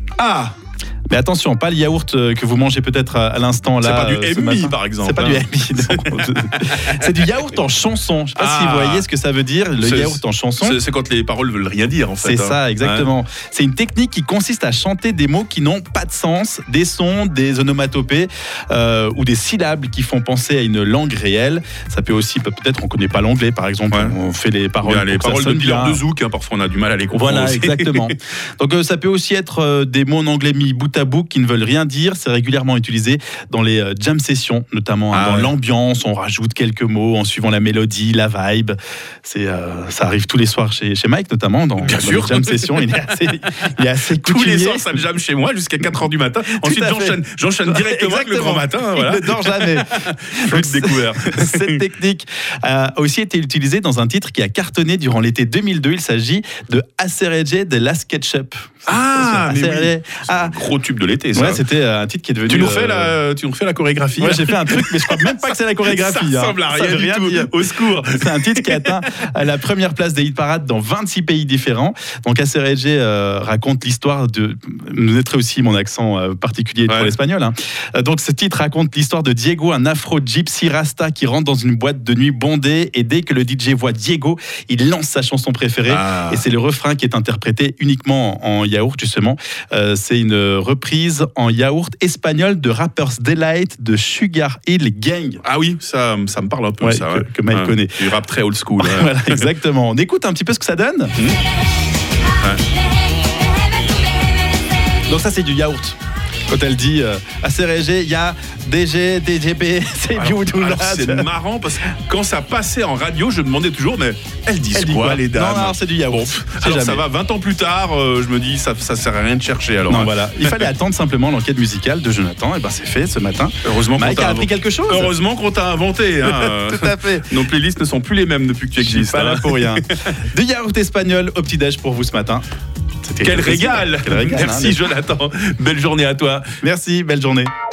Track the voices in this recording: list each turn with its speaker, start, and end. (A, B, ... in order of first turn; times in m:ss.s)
0:00.2-0:00.5 A
0:01.1-0:10.8 B
0:03.8-0:07.0 A
0:08.4-0:09.0 A
0:09.8-0:13.1 A
0:12.2-0:26.0 B
0:24.8-0:28.1 A
0:27.1-0:45.0 B
0:35.1-0:35.5 A
0:41.8-0:42.8 A
0:44.2-0:51.8 A
0:46.6-1:00.5 B
0:58.8-1:01.6 A
1:01.3-1:03.2 B
1:02.5-1:08.9 A
1:04.2-1:35.4 B
1:16.9-1:17.1 A
1:25.8-1:26.4 A
1:35.4-1:39.5 A
1:36.8-1:38.1 B
1:38.8-1:41.1 B
1:45.1-1:46.0 B
1:46.5-1:51.3 B
1:50.1-2:00.7 A
1:54.7-1:57.0 B
1:59.9-2:05.1 B
2:03.6-2:10.1 A
2:06.2-2:07.3 B
2:08.8-2:12.4 B
2:13.0-2:14.8 B
2:13.2-2:16.5 A
2:16.6-2:17.5 B